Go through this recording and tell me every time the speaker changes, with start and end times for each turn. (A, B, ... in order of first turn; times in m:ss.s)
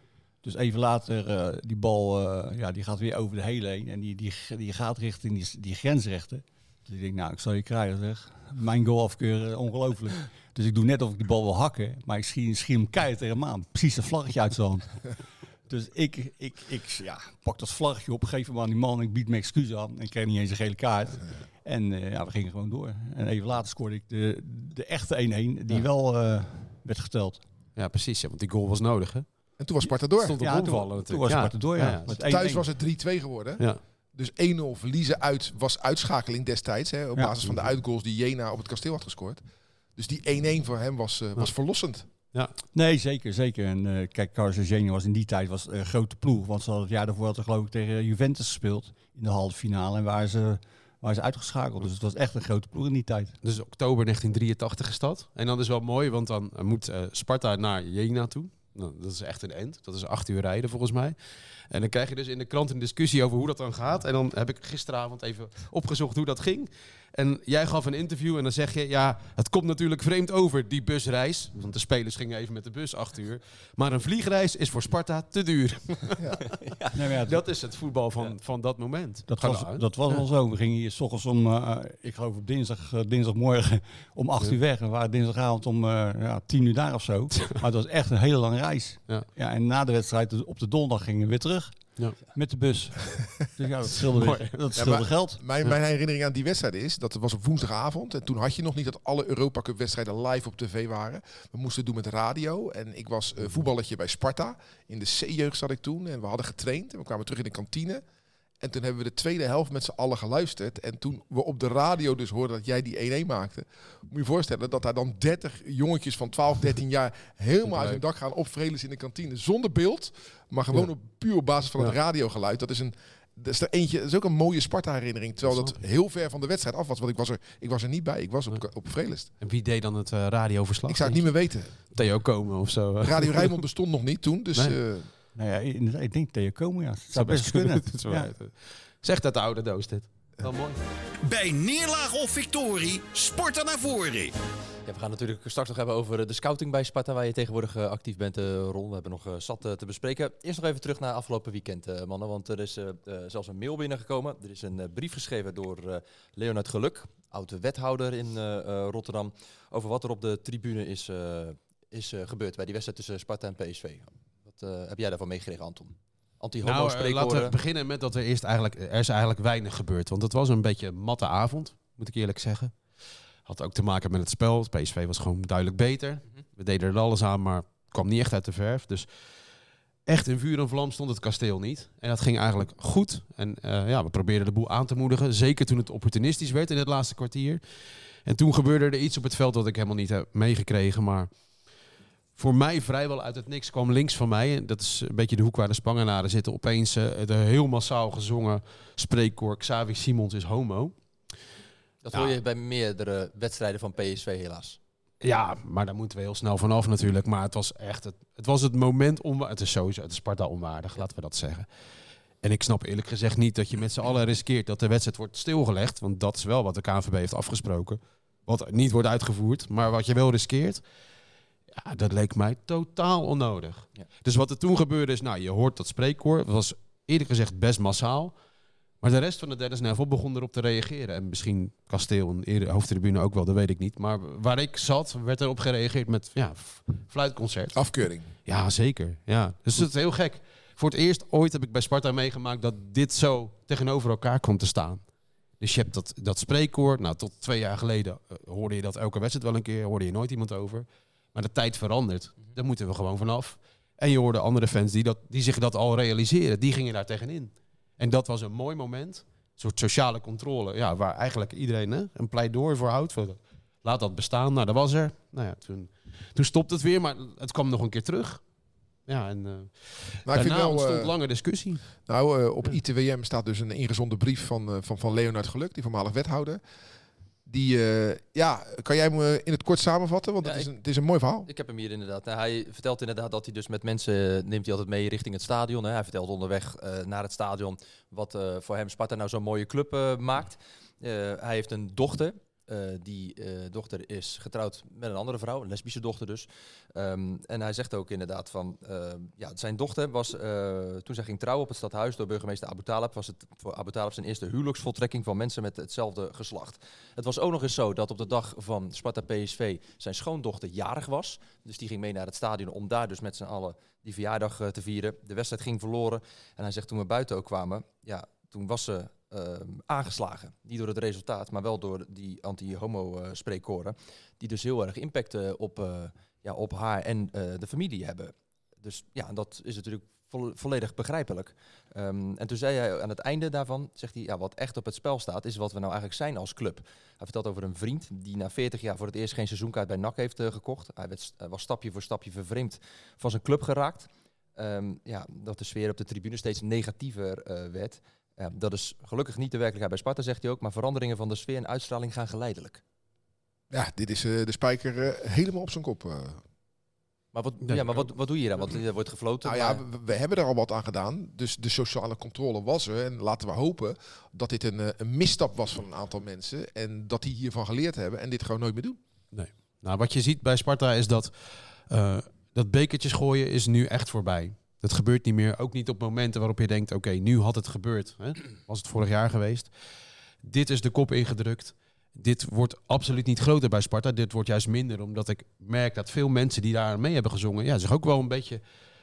0:00.4-0:15.2 A
0:15.7-0:27.4 A
0:27.8-0:29.3 B
0:29.6-0:30.4 C
0:30.2-0:32.2 B
0:30.4-0:32.7 A
0:32.2-0:39.4 C
0:40.0-0:42.1 C
0:42.7-0:53.4 A
0:53.4-1:01.2 B
1:01.7-1:16.4 B
1:16.9-1:17.4 A
1:17.2-1:19.8 B
1:19.3-1:35.4 A
1:34.1-1:34.5 B
1:34.8-1:48.0 C
1:48.6-2:09.3 C
1:57.7-1:58.0 B
2:09.4-2:11.3 B
2:10.9-2:11.8 C
2:11.9-2:13.6 B
2:13.0-2:15.1 C
2:15.4-2:18.3 A
2:17.2-2:20.8 B
2:21.2-2:24.3 D
2:24.9-2:47.6 E
2:46.6-2:59.1 B
3:00.1-3:07.6 B
3:08.2-3:11.4 B
3:12.4-3:21.0 B
3:22.0-3:24.8 E
3:25.2-3:31.7 B
3:32.4-3:40.8 B
3:41.7-3:48.4 B
3:49.0-3:57.8 B
3:57.7-3:58.3 C
3:58.4-4:05.0 B
4:05.6-4:28.4 B
4:29.1-4:31.9 B
4:30.3-4:31.1 C
4:32.1-4:36.6 C
4:37.5-4:41.5 C
4:40.4-4:40.7 E
4:41.4-5:52.8 E
5:53.7-5:56.4 C
5:57.3-5:59.8 E
5:59.4-6:09.0 C
6:09.3-6:19.7 B
6:20.4-6:28.6 B